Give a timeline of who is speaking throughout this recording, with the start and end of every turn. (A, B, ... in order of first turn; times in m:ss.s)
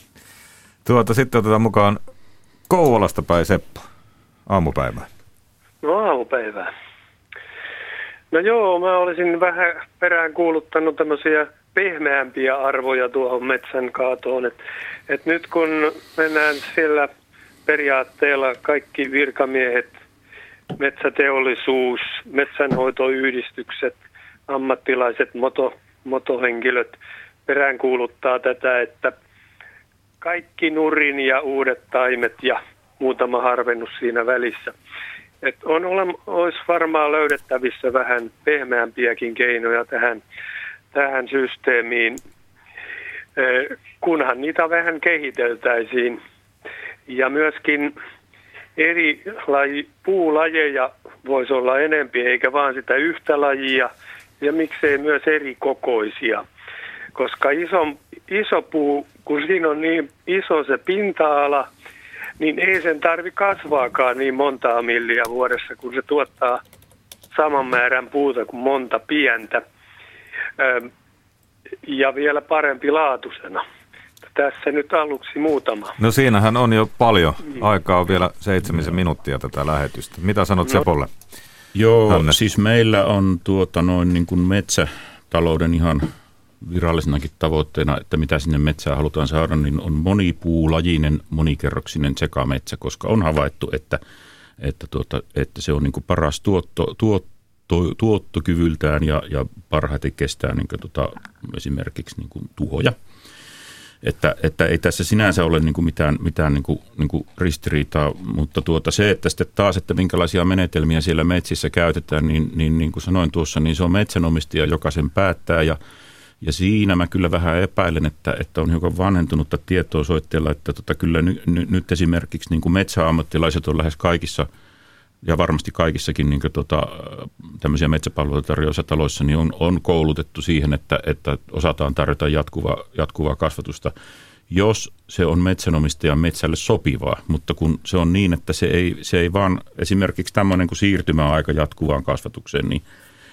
0:00.8-0:02.0 A
0:02.7-0:03.8 A
0:04.5-0:05.1 A
0:05.8-0:06.7 B
0:08.3-0:17.1 B
0:17.7-0:19.9 B
0:20.8-0:24.0 B
0:24.5-0:29.2 B
0:30.2-0:34.7 B
0:35.4-0:40.2 B
0:40.9-0:42.2 B
0:43.4-0:46.2 B
0:47.1-0:48.0 B
0:48.8-0:56.4 B
0:57.2-1:01.7 B
1:02.4-1:06.6 B
1:07.3-1:09.6 B
1:10.6-1:10.9 B
1:11.8-1:13.6 B
1:14.3-1:16.0 B
1:16.0-1:21.1 A
1:21.7-1:26.1 C
1:22.1-1:22.4 A
1:26.6-1:34.0 C
1:34.6-1:43.0 C
1:44.0-1:55.8 C
1:56.4-2:04.5 C
2:05.2-2:13.9 C
2:14.5-2:22.8 C